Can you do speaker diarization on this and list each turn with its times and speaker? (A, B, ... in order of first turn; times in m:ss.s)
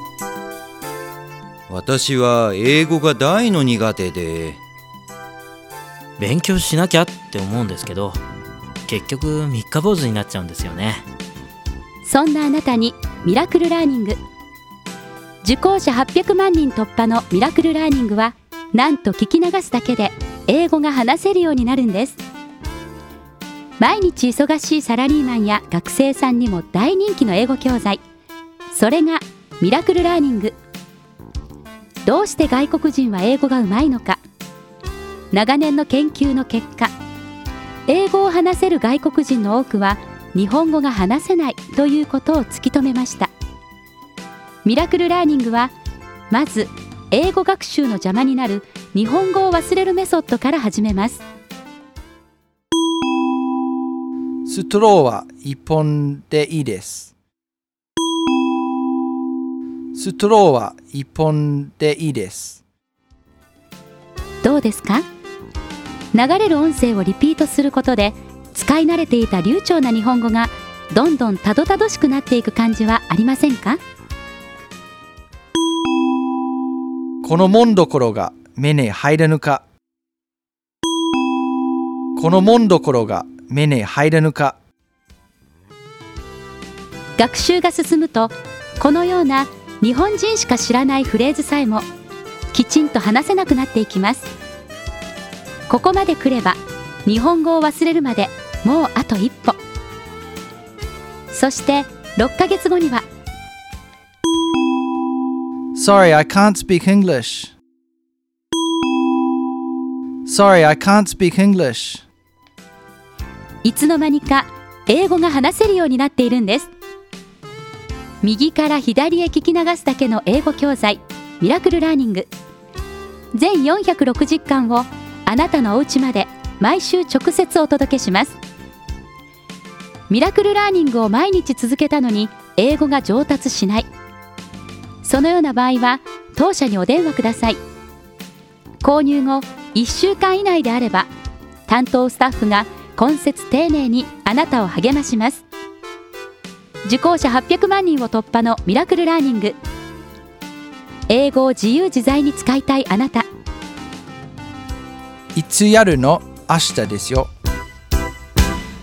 0:01.7-0:04.6 A
0:06.2-0:08.2 B
0:08.9-0:11.1 B
0:12.0-0:14.2 C
0:15.4-0:22.2 C
0:23.8-0:28.0 C
0:28.7-0:30.6 C
0:32.0-0:34.2 C
0:35.3-0:36.9 C
0:37.9-0:43.3 C
0:44.6-0:45.7 C
0:46.3-0:51.2 C
0:54.5-0:57.1 D
0:59.9-1:02.6 D
1:04.4-1:05.0 C
1:06.1-1:13.8 C
1:17.2-1:19.6 D
1:22.2-1:24.6 D
1:27.2-1:31.8 C
1:32.5-1:34.3 C
1:35.7-1:39.6 C
1:41.3-1:43.0 C
1:45.8-1:47.5 D
1:50.3-1:52.0 D
1:53.6-1:56.7 C
1:58.2-2:02.3 C
2:03.3-2:08.4 C
2:10.1-2:13.9 C
2:15.0-2:17.6 C
2:18.8-2:21.1 C
2:21.7-2:25.4 C
2:26.8-2:29.6 C
2:31.1-2:33.3 C
2:35.3-2:37.3 D